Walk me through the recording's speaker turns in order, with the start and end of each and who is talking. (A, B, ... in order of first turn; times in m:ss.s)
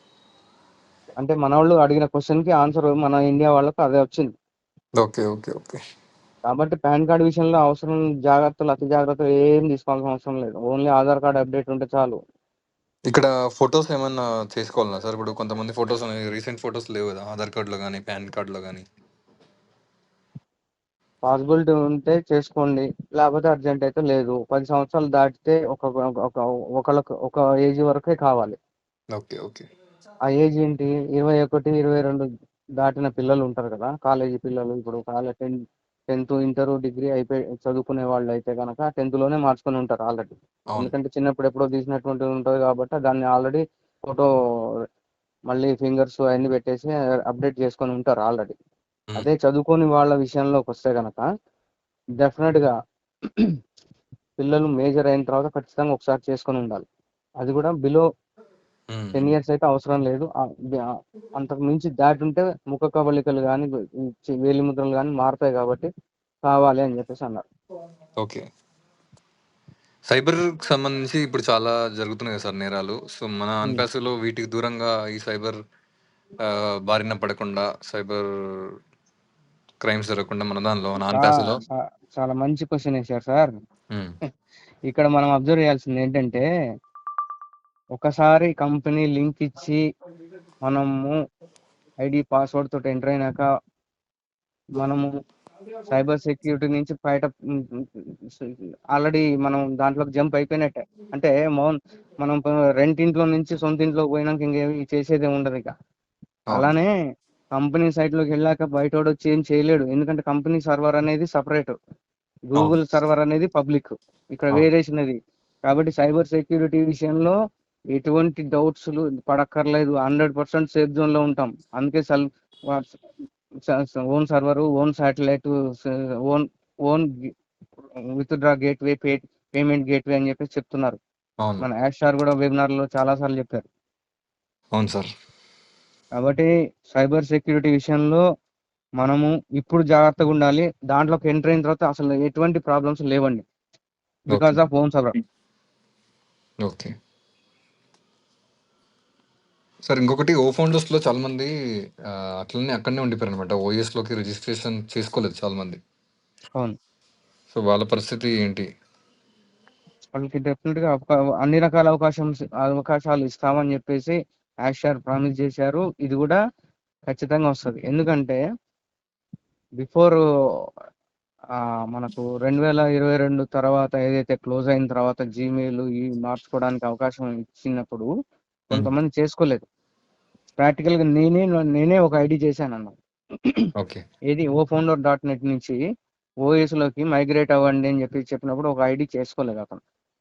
0:01.2-0:04.3 A
0:05.0-0:05.8 B
0:06.5-0:12.2 A
0:13.1-0:18.8 B
0:21.2-0:28.6 A
0:29.1-0:29.7 B
0:30.3-0:32.3 A
0:32.8-0:35.6 A
0:36.1-0:44.3 A
0:45.5-0:48.6 A
0:49.2-0:51.2 A
0:52.2-0:52.7 A
0:53.2-0:53.6 A
0:54.4-0:56.9 A
0:57.4-0:58.0 A
0:58.9-0:59.3 B
0:59.2-1:00.9 A
1:01.4-1:05.9 A
1:06.4-1:07.4 A
1:08.2-1:08.5 B
1:10.1-1:15.6 B
1:16.5-1:18.7 B
1:19.8-1:21.6 B
1:21.1-1:23.5 A
1:24.9-1:26.4 A
1:28.0-1:29.8 A
1:30.6-1:31.2 A
1:32.0-1:33.4 A
1:34.8-1:35.1 A
1:35.9-1:45.7 A
1:46.5-1:46.9 A
1:47.6-1:51.7 A
1:52.5-1:57.4 A
1:57.9-2:03.0 A
2:03.6-2:07.3 A
2:08.2-2:11.0 A
2:11.6-2:13.7 A
2:14.8-2:15.1 B
2:16.2-2:18.2 A
2:19.0-2:23.4 A
2:24.3-2:25.2 A
2:24.3-2:24.6 B
2:26.6-2:26.9 B
2:29.9-2:31.5 B
2:32.1-2:35.8 B
2:37.5-2:38.7 B
2:40.2-2:46.4 A
2:47.1-2:48.4 A
2:49.8-2:50.2 A
2:51.9-2:58.1 A
2:58.7-2:59.6 A
3:00.6-3:03.7 A
3:04.3-3:05.8 A
3:06.4-3:09.8 A